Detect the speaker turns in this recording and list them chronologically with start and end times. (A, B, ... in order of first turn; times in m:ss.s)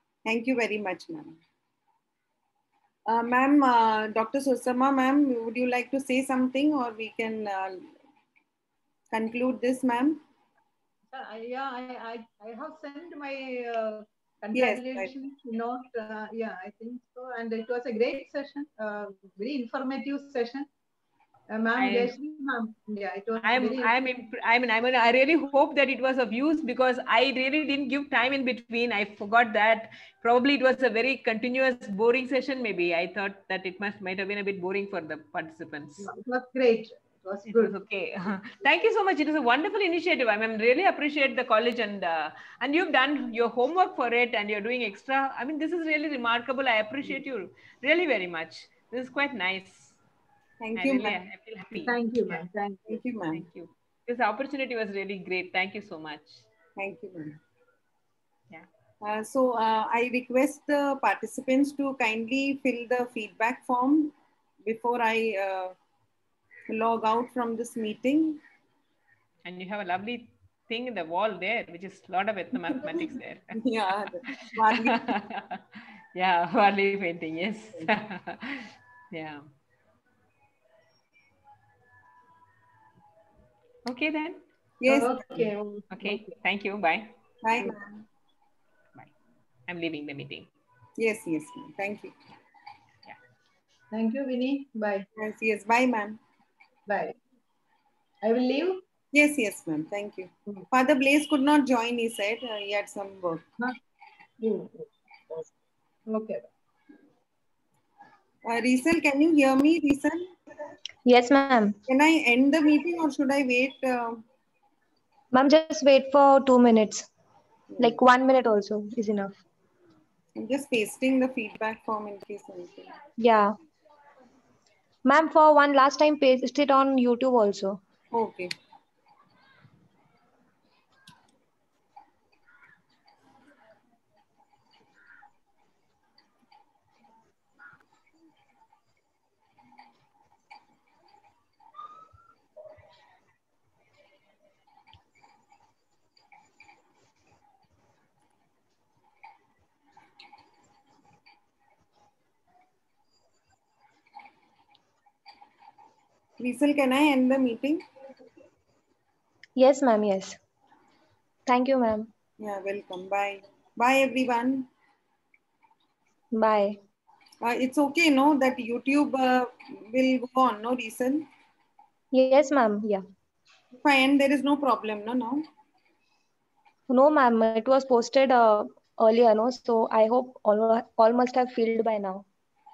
0:00.2-0:01.4 A
0:03.1-0:07.9 A
0:09.1-0:10.2 A
0:11.1-0:20.7 B
0:14.5-0:15.1 A
0:21.5-0:24.0 B
0:21.8-0:22.1 C
0:23.4-0:36.1 C
0:36.0-0:37.7 B
0:37.5-0:50.0 C
0:50.6-0:51.2 A
0:50.8-0:52.0 C
0:51.8-0:52.8 B
0:52.8-0:53.4 A
0:53.3-0:56.4 C
0:56.8-0:57.4 A
0:59.0-1:04.1 A
1:04.6-1:05.7 A
1:06.7-1:08.4 A
1:09.4-1:13.5 C
1:13.6-1:15.0 A
1:14.7-1:19.4 C
1:23.8-1:24.4 C
1:24.8-1:25.5 A
1:24.9-1:26.3 B
1:25.9-1:27.1 C
1:27.4-1:27.8 A
1:29.7-1:30.5 C
1:31.0-1:32.1 A
1:33.9-1:35.0 B
1:35.2-1:36.2 A
1:36.9-1:37.1 B
1:38.2-1:38.8 B
1:39.1-1:43.4 A
1:44.4-1:44.8 B
1:46.1-1:46.4 B
1:48.5-1:50.3 A
1:51.0-1:51.8 D
1:51.9-1:54.2 A
1:55.3-1:57.1 D
1:57.7-1:58.0 A
1:57.8-1:59.3 D
2:00.4-2:02.9 A
2:03.2-2:03.5 D
2:05.0-2:07.8 D
2:08.1-2:08.5 A
2:36.4-2:37.8 A
2:39.6-2:40.4 D
2:41.4-2:42.1 D
2:42.4-2:44.7 A
2:46.3-2:46.8 D
2:47.4-2:51.2 A
2:52.1-2:53.0 D
2:53.8-2:55.4 A
2:56.9-3:02.2 D